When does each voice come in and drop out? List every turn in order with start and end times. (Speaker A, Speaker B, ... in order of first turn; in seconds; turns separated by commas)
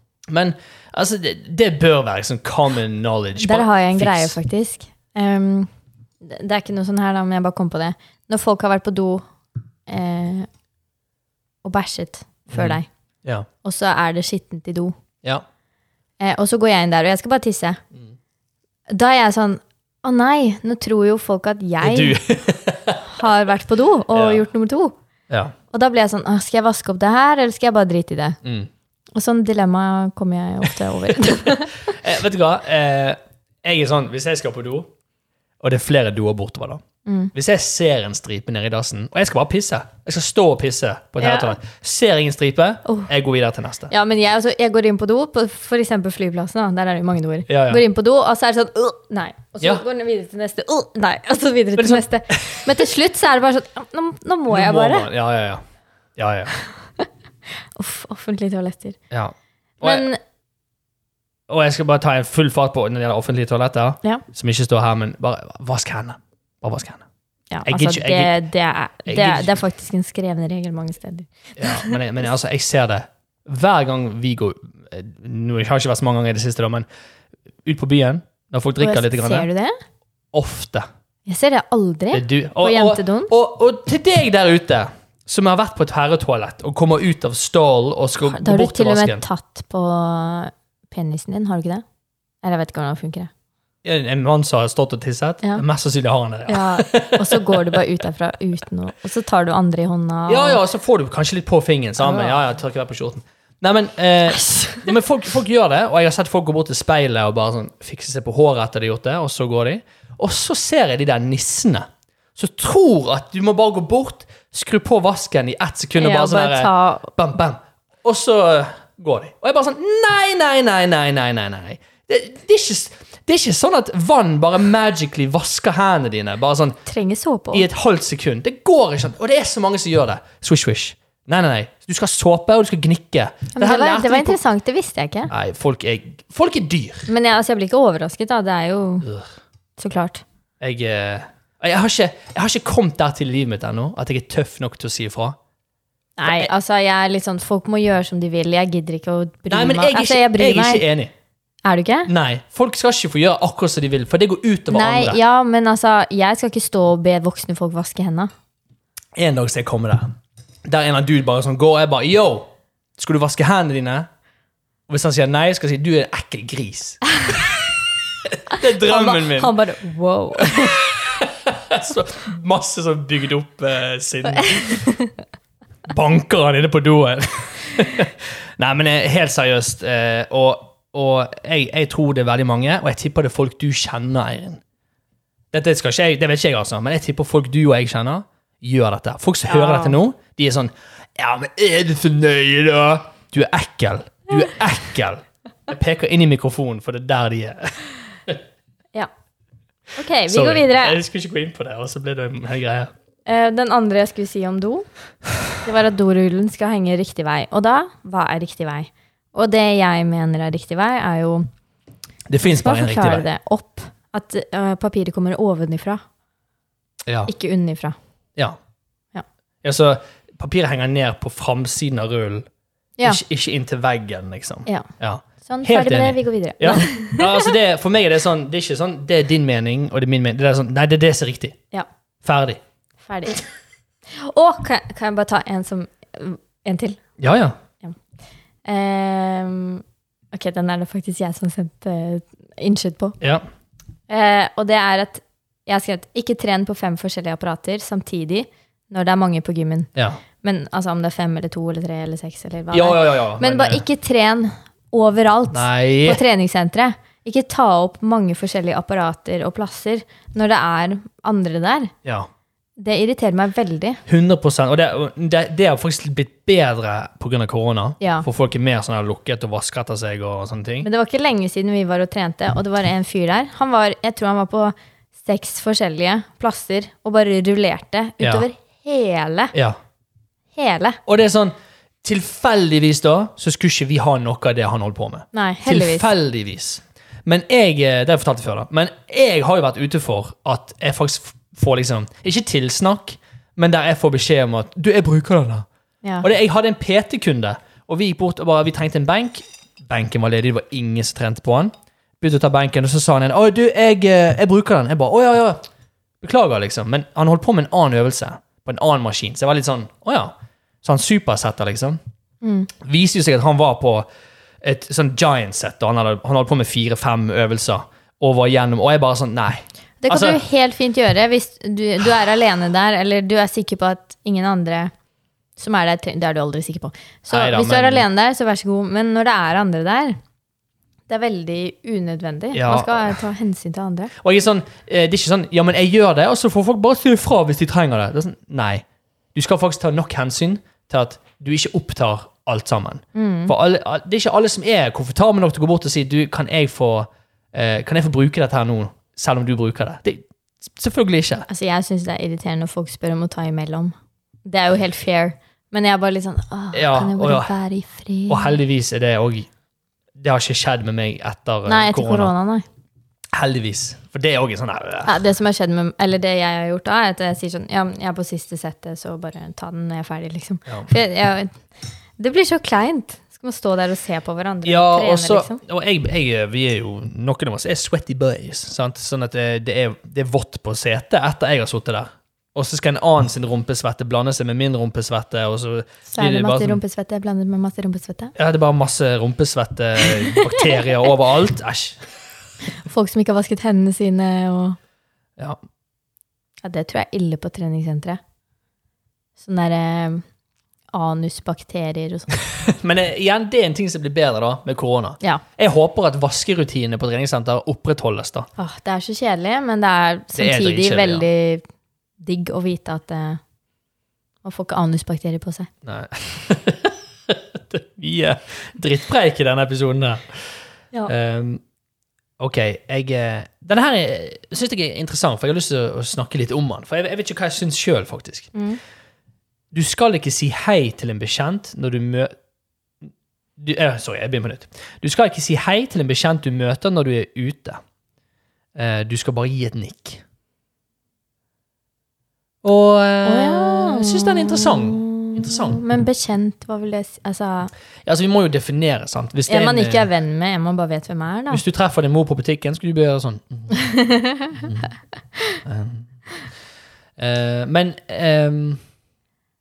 Speaker A: 0.3-4.4, Speaker B: 3.4-5.7, Speaker B: 6.2-9.2, Speaker B: 9.9-10.5, Speaker B: 11.6-12.9, Speaker A: 12.5-13.5, Speaker B: 13.6-14.9, Speaker B: 16.2-17.8, Speaker B: 18.9-22.2, Speaker A: 21.8-23.0, Speaker B: 23.1-24.9, Speaker A: 24.1-24.4, Speaker A: 25.3-25.5, Speaker B: 25.7-28.4, Speaker A: 28.4-28.7, Speaker B: 29.1-31.9, Speaker A: 31.1-34.9, Speaker A: 35.6-36.8, Speaker B: 37.1-37.3, Speaker A: 37.3-43.9, Speaker B: 41.2-41.6, Speaker B: 43.9-55.1, Speaker A: 47.5-47.8, Speaker A: 51.8-52.7, Speaker A: 54.5-55.6, Speaker A: 56.2-56.5, Speaker B: 57.8-59.0, Speaker A: 59.1-60.1, Speaker B: 59.8-60.2, Speaker A: 61.5-67.0, Speaker B: 67.5-72.0, Speaker A: 67.7-68.4, Speaker A: 69.1-69.6, Speaker A: 71.6-76.9, Speaker A: 77.7-79.5, Speaker B: 78.8-79.8, Speaker A: 80.3-80.9, Speaker B: 81.3-83.3, Speaker A: 82.1-89.2, Speaker B: 88.3-91.8, Speaker B: 92.4-93.3, Speaker A: 93.8-97.8, Speaker B: 96.5-100.6, Speaker A: 100.3-126.8, Speaker B: 102.0-102.4, Speaker B: 104.3-104.9, Speaker B: 116.0-117.1, Speaker B: 126.9-127.7, Speaker A: 127.5-134.4, Speaker B: 133.6-135.3, Speaker A: 135.3-137.1, Speaker B: 137.1-139.1, Speaker B: 139.8-140.2, Speaker A: 140.6-145.4, Speaker B: 146.2-150.8, Speaker A: 146.2-146.5, Speaker A: 149.5-151.1, Speaker B: 151.6-152.1, Speaker A: 152.1-155.2, Speaker B: 154.7-158.3, Speaker A: 159.2-164.1, Speaker A: 164.9-167.7, Speaker A: 168.2-169.6, Speaker B: 168.5-170.8, Speaker A: 170.4-174.9, Speaker B: 174.4-175.1, Speaker A: 175.9-184.6, Speaker A: 185.5-198.4, Speaker B: 189.5-190.0, Speaker B: 200.0-201.0, Speaker A: 200.3-202.9, Speaker B: 203.3-204.9, Speaker B: 205.6-211.5, Speaker A: 212.3-213.2, Speaker B: 212.6-216.0, Speaker A: 217.1-217.3, Speaker B: 217.3-218.0, Speaker A: 219.6-222.5, Speaker A: 223.0-231.6, Speaker B: 225.4-227.5, Speaker A: 232.2-232.6, Speaker B: 233.1-233.4, Speaker B: 234.1-237.0, Speaker A: 237.2-237.6, Speaker B: 238.7-243.2, Speaker B: 244.1-249.9, Speaker A: 249.9-250.2, Speaker B: 250.4-261.9, Speaker A: 252.7-253.8, Speaker A: 255.5-256.2, Speaker B: 262.8-264.0, Speaker A: 264.1-270.9, Speaker B: 268.0-268.3, Speaker B: 270.8-279.5, Speaker A: 278.2-278.5, Speaker B: 280.6-281.0, Speaker A: 281.1-295.7, Speaker B: 285.3-286.1, Speaker A: 296.2-305.6, Speaker A: 306.2-312.0, Speaker B: 312.4-312.7, Speaker A: 312.8-314.1, Speaker A: 314.6-320.4, Speaker B: 320.0-324.9, Speaker B: 325.6-330.2, Speaker A: 327.3-328.1, Speaker B: 331.1-334.1, Speaker A: 332.5-333.2, Speaker A: 334.2-338.8, Speaker A: 339.4-351.5, Speaker B: 343.1-343.5, Speaker B: 351.5-353.9, Speaker B: 354.5-358.6, Speaker A: 356.7-357.5, Speaker A: 358.3-359.5, Speaker A: 360.2-362.3, Speaker B: 361.7-362.6, Speaker A: 363.3-365.2, Speaker B: 365.1-371.6, Speaker B: 372.2-375.6, Speaker A: 374.6-386.8, Speaker B: 386.1-388.3, Speaker A: 388.4-392.0, Speaker B: 390.3-390.6, Speaker B: 392.8-394.8, Speaker B: 396.6-398.2, Speaker B: 399.4-400.2, Speaker B: 400.9-402.3, Speaker A: 402.6-408.5, Speaker B: 408.6-411.6, Speaker A: 410.4-411.3, Speaker B: 412.2-413.4, Speaker B: 414.4-415.7, Speaker A: 415.9-420.5, Speaker A: 421.1-421.6, Speaker A: 422.4-428.5, Speaker B: 428.6-428.8, Speaker A: 429.7-432.4, Speaker A: 433.0-437.8, Speaker A: 438.8-440.2, Speaker A: 442.6-445.8, Speaker B: 443.2-447.7, Speaker A: 448.1-450.1, Speaker B: 449.5-451.6, Speaker A: 451.5-453.7, Speaker B: 453.7-454.9, Speaker A: 454.6-454.9, Speaker A: 455.6-456.1, Speaker A: 457.2-458.8